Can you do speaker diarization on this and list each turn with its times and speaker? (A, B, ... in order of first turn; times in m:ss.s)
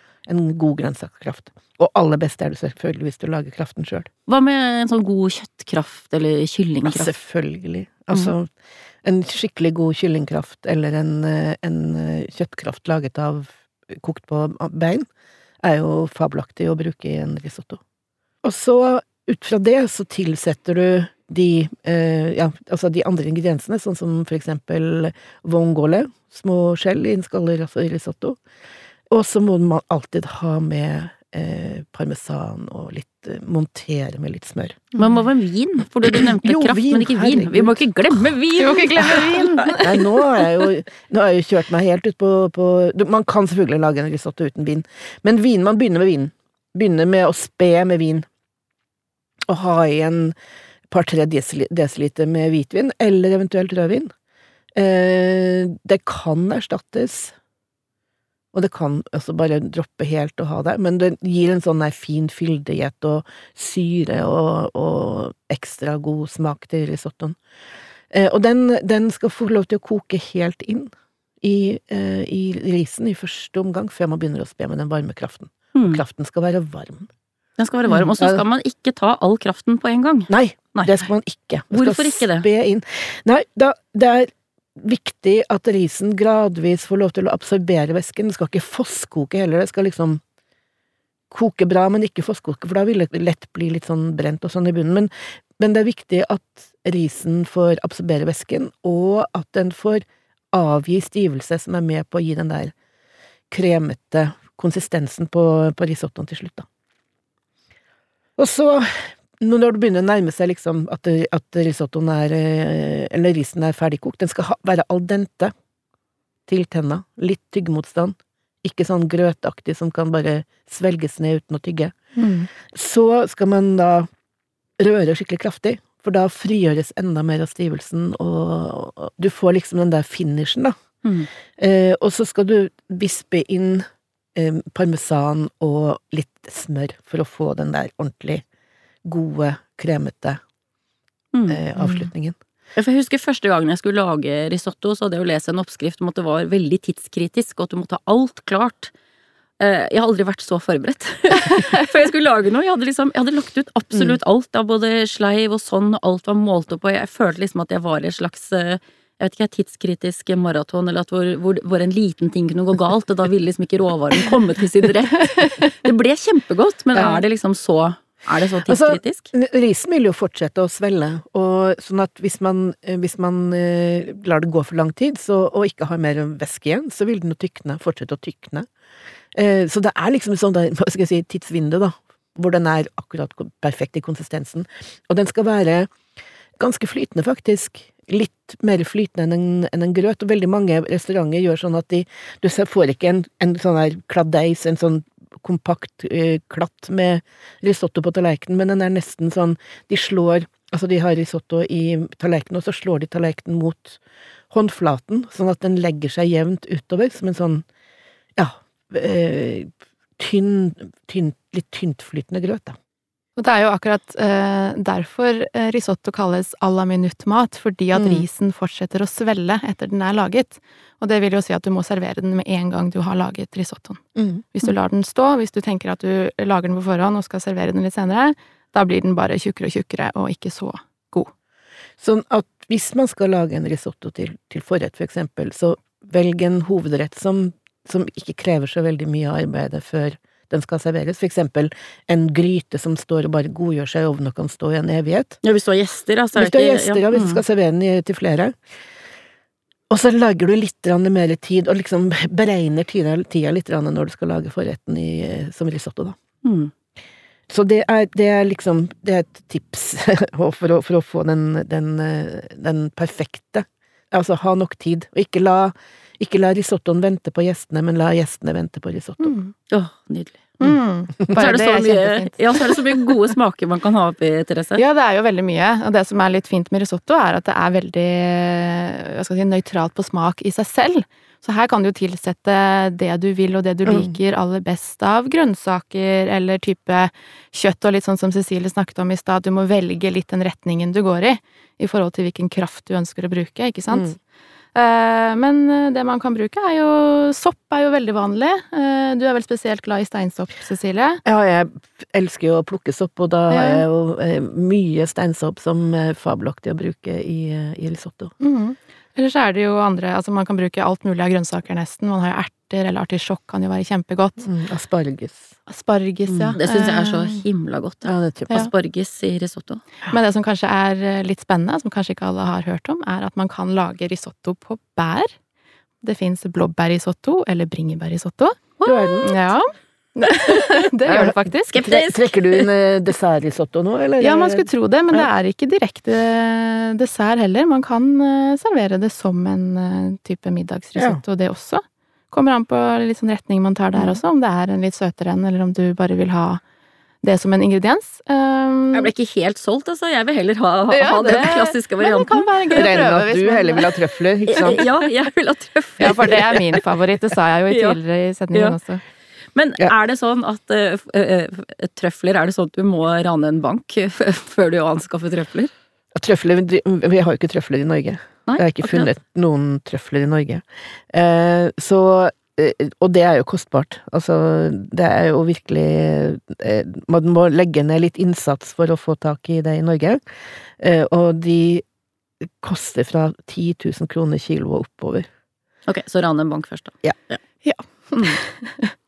0:00.3-0:04.1 A
0:04.3-0:07.1 B
0:06.8-0:08.5 A
0:09.0-0:15.0 A
0:15.6-0:17.8 A
0:18.4-0:28.4 A
0:29.1-0:34.9 A
0:35.0-0:39.7 B
0:36.1-0:37.8 A
0:38.5-0:40.7 C
0:39.8-0:48.2 A
0:49.5-0:50.3 A
0:50.9-0:54.1 A
0:54.7-0:57.3 A
0:58.5-1:07.4 A
1:08.1-1:10.9 A
1:11.4-1:17.1 A
1:15.7-1:16.0 B
1:17.6-1:21.0 B
1:17.9-1:18.4 A
1:20.3-1:30.2 A
1:21.7-1:22.5 B
1:31.3-1:40.0 A
1:40.5-1:42.7 A
1:43.5-1:46.6 A
1:48.4-1:55.5 A
1:56.5-2:01.9 A
2:02.2-2:02.5 C
2:02.6-2:04.1 A
2:04.8-2:10.7 A
2:11.0-2:11.3 B
2:11.6-2:18.4 A
2:19.0-2:20.4 A
2:21.3-2:21.6 B
2:21.5-2:22.4 A
2:21.8-2:22.1 C
2:22.8-2:28.9 B
2:29.6-2:49.3 B
2:46.9-2:47.2 A
2:48.6-2:58.6 A
2:59.3-3:05.9 A
3:06.6-3:24.0 A
3:24.5-3:27.6 A
3:28.4-3:32.8 A
3:33.4-3:44.0 C
3:37.9-3:38.2 A
3:44.2-3:44.4 A
3:44.5-3:51.3 C
3:52.0-4:05.4 A
4:05.4-4:07.4 B
4:06.4-4:08.6 A
4:09.9-4:16.2 A
4:16.4-4:16.7 B
4:17.5-4:29.3 A
4:29.2-4:29.5 C
4:29.7-4:30.7 B
4:30.6-4:33.2 C
4:31.3-4:34.8 B
4:34.8-4:54.2 C
4:43.8-4:44.1 A
4:54.7-5:01.2 C
5:01.2-5:08.3 A
5:03.5-5:03.8 C
5:08.4-5:14.5 C
5:14.4-5:15.5 A
5:15.7-5:17.4 C
5:16.3-5:19.8 B
5:18.0-5:18.6 A
5:20.0-5:25.3 C
5:26.0-5:31.8 C
5:28.8-5:29.3 B
5:28.8-5:29.3 A
5:31.7-5:32.7 B
5:31.8-5:35.3 A
5:34.2-5:46.6 C
5:41.0-5:41.2 A
5:47.2-5:49.1 C
5:48.9-5:52.9 B
5:50.9-5:54.0 C
5:52.7-5:54.9 A
5:54.5-5:56.6 B
5:56.0-5:59.0 C
5:57.7-5:58.0 B
5:58.5-5:58.8 B
5:59.5-6:05.7 B
6:06.1-6:20.2 A
6:08.5-6:09.1 B
6:20.8-6:21.8 A
6:22.6-6:25.3 A
6:25.9-6:27.4 B
6:27.6-6:28.9 C